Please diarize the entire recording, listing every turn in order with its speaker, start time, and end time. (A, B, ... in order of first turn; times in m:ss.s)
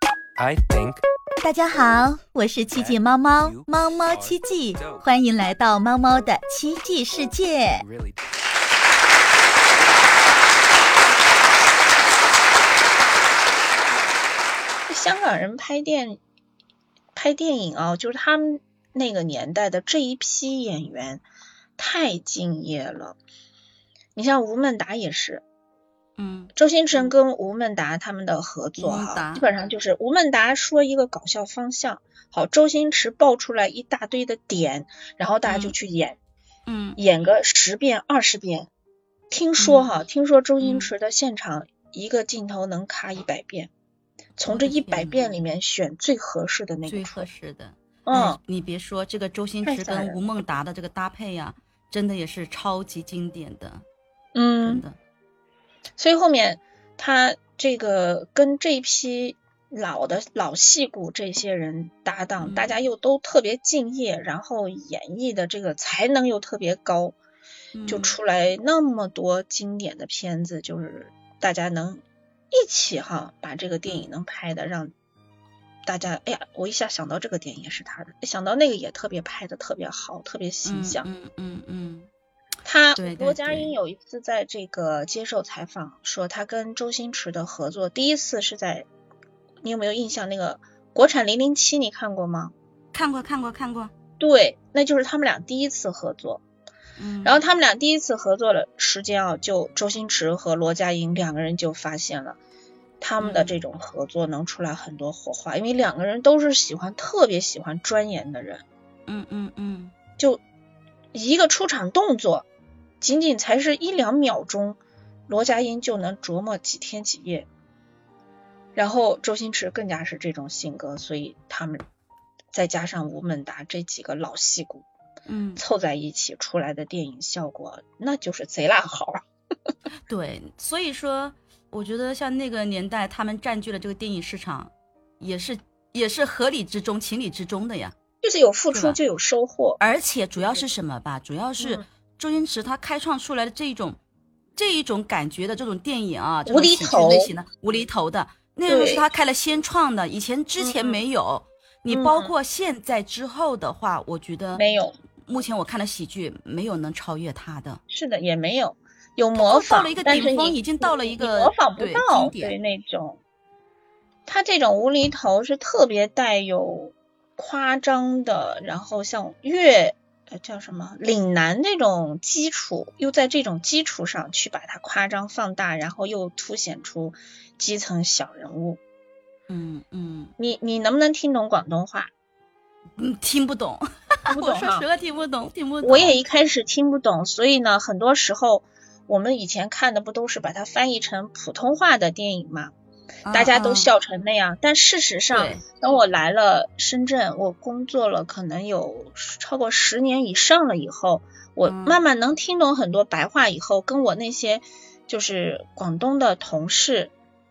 0:00.4-0:01.0 A
0:01.4-0:07.8 B
0:02.7-0:05.1 A
0:07.2-0:08.2 A
0:14.9-0:16.2 C
0:17.2-0:21.2 C
0:21.8-0:23.2 C
0:24.2-0:25.4 C
0:26.2-0:27.1 D
0:26.6-0:36.2 C
0:28.8-0:29.5 D
0:35.5-0:35.8 D
0:36.7-0:37.0 D
0:37.0-0:38.7 C
0:39.3-0:43.7 C
0:39.6-0:40.0 D
0:40.6-0:40.9 D
0:44.4-0:47.3 C
0:44.5-0:45.3 D
0:46.9-0:53.8 D
0:48.1-0:48.4 C
0:49.6-0:50.2 C
0:54.3-0:54.8 C
0:54.6-0:55.0 D
0:56.0-1:07.2 C
1:02.4-1:02.8 D
1:07.8-1:08.2 D
1:07.9-1:14.9 C
1:15.9-1:21.0 C
1:20.6-1:22.1 D
1:22.6-1:28.9 C
1:23.0-1:23.7 D
1:29.6-1:32.5 C
1:32.9-1:33.9 D
1:34.2-1:36.4 C
1:37.0-1:37.4 D
1:37.2-1:42.4 C
1:43.0-1:48.6 C
1:43.2-1:43.6 D
1:49.1-1:49.9 D
1:51.1-1:52.4 C
1:53.0-1:57.5 C
1:58.8-2:01.8 C
2:02.5-2:04.8 C
2:05.3-2:05.6 D
2:05.6-2:09.2 C
2:10.1-2:18.0 D
2:18.2-2:19.8 C
2:18.7-2:19.0 D
2:19.8-2:24.0 D
2:21.6-2:21.8 C
2:24.6-2:34.6 D
2:26.5-2:27.3 C
2:28.7-2:29.1 C
2:30.6-2:31.0 C
2:31.9-2:32.3 C
2:34.6-2:35.0 C
2:35.3-2:37.8 D
2:37.9-2:43.2 C
2:39.3-2:42.6 D
2:44.3-2:58.8 C
2:59.5-3:00.3 D
3:00.4-3:02.1 C
3:03.0-3:06.2 D
3:04.3-3:04.9 C
3:05.8-3:12.7 C
3:13.3-3:13.9 D
3:13.3-3:27.1 C
3:15.3-3:15.6 D
3:21.6-3:22.0 D